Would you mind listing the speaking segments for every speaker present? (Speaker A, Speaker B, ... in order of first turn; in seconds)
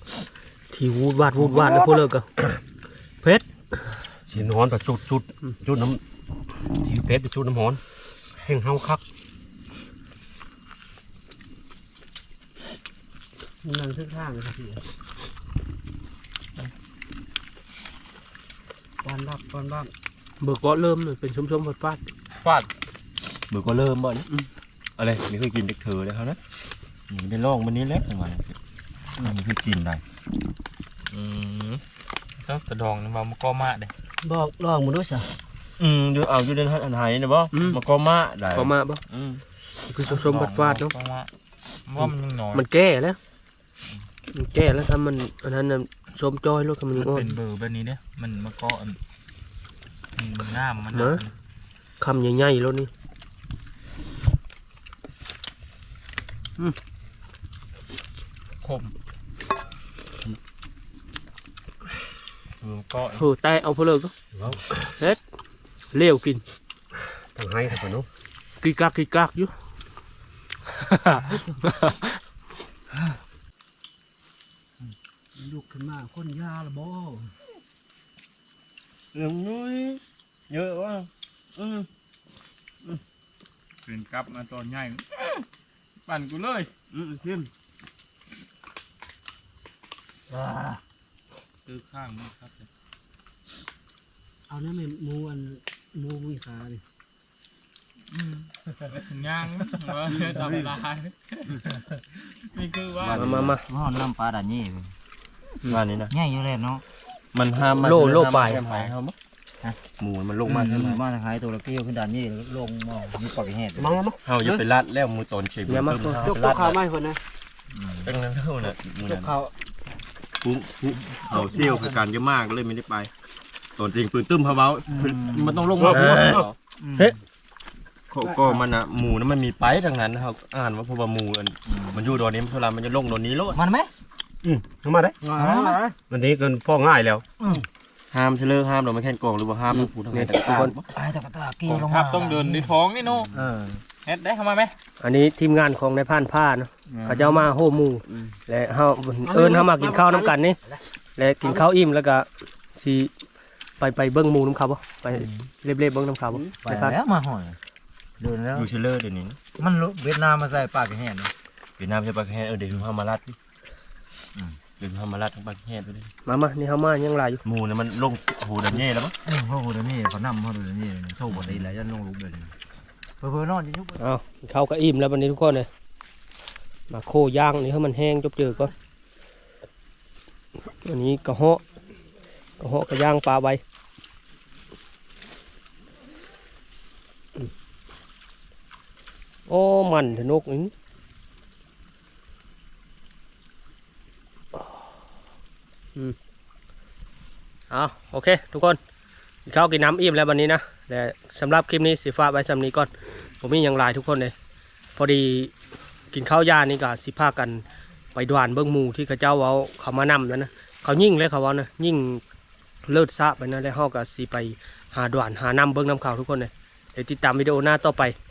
Speaker A: 0.7-2.3, 20.4-22.0, 37.5-37.8, 38.5-39.0, 39.9-40.9, 42.0-43.2, 44.3-47.3, 50.9-51.2, 52.0-52.9, 63.1-64.1, 65.9-66.4, 68.6-69.5, 70.7-72.2, 103.1-103.6, 107.8-108.9, 115.7-116.2, 125.8-126.4, 140.1-140.7, 145.0-150.6, 151.2-153.1, 153.8-156.9, 166.2-167.4, 174.0-175.7, 176.9-178.7, 180.6-181.6, 182.6-183.6, 189.5-190.7, 197.7-198.8, 199.4-204.3, 204.9-205.5, 206.1-207.6, 208.1-212.2, 212.8-218.1
Speaker B: 1.4-1.9, 4.3-6.0, 6.7-7.8, 8.4-9.0, 64.3-64.6, 67.3-68.1, 113.8-114.2, 134.4-137.3
Speaker C: 13.6-14.8, 19.0-19.9, 34.2-35.3, 71.3-71.5, 75.3-77.3, 94.5-96.8, 116.2-117.2, 135.3-135.8, 149.2-150.3
Speaker D: 22.3-22.7, 31.1-31.8, 32.4-33.9, 40.0-41.3, 41.9-42.6, 47.0-49.0, 50.1-51.3, 58.6-58.9, 62.6-63.2, 83.8-85.4, 86.0-86.7, 91.7-92.7, 98.1-103.2, 141.7-143.3, 144.0-144.7, 146.9-147.3
Speaker E: 23.5-24.2, 25.0-26.4, 27.1-28.6, 29.2-30.0, 35.8-39.4, 79.1-81.9, 86.9-87.5, 103.0-103.6, 105.7-106.1, 107.3-109.1, 109.9-111.0, 114.2-116.8, 118.0-119.3, 120.4-123.1, 123.8-126.5, 128.1-133.6, 138.1-140.9, 158.5-159.4, 161.8-163.3, 164.7-166.1, 167.4-169.1, 171.3-171.6
Speaker F: 103.6-104.9, 106.1-106.8, 110.5-114.0, 117.7-118.1, 119.0-119.5, 121.0-122.0, 124.9-127.1, 131.7-132.1, 133.5-133.9, 135.3-135.8, 140.9-142.8, 143.3-143.8, 155.1-155.4, 156.6-157.6, 158.2-158.7, 159.6-161.3, 164.3-164.6, 169.2-172.5, 173.2-174.1